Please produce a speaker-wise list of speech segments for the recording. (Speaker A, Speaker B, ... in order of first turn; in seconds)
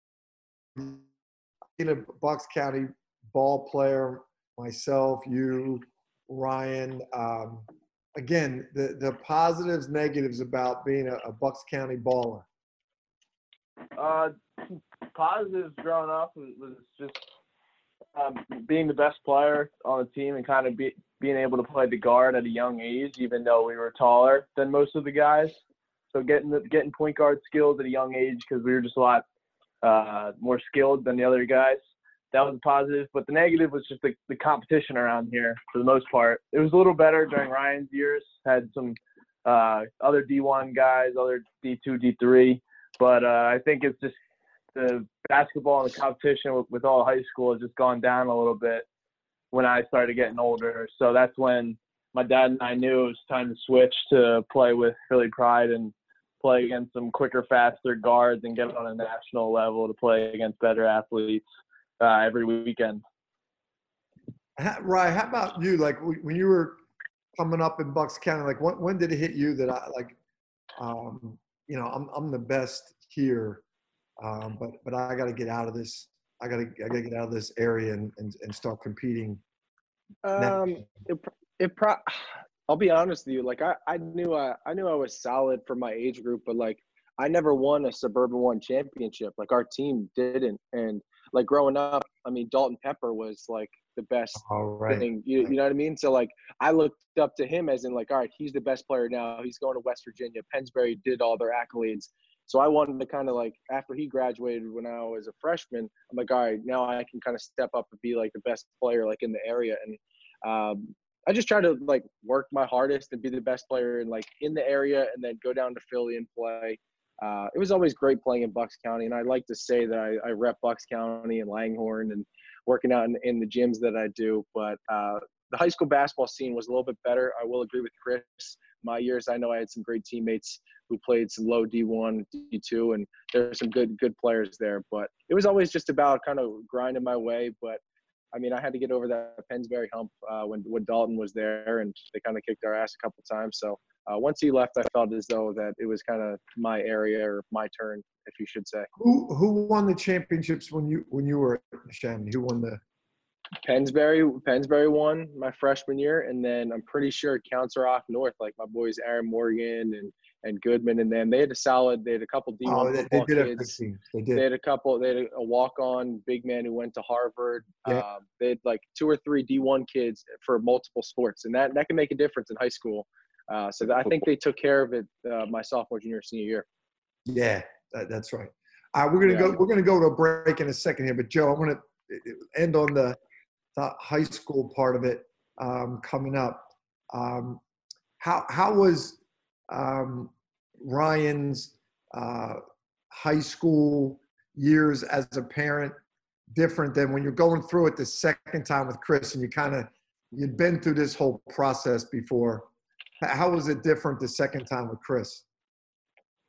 Speaker A: 0.8-1.0, 1.8-12.5, 64.6-66.8, 67.4-70.2, 70.8-73.6, 74.2-79.4, 80.4-80.8, 94.4-95.5, 149.0-152.8, 162.7-164.4, 177.3-183.2, 183.8-187.6, 188.2-189.2, 189.7-192.6, 193.1-196.0, 196.5-202.7, 203.2-205.4
Speaker B: 14.0-14.4, 15.1-17.3, 18.2-25.6, 26.1-29.2, 29.8-31.8, 32.3-44.2, 44.8-48.9, 49.5-61.4, 62.0-63.0
Speaker C: 80.2-137.8, 138.3-148.9, 153.6-163.8, 164.3-176.7, 179.3-179.6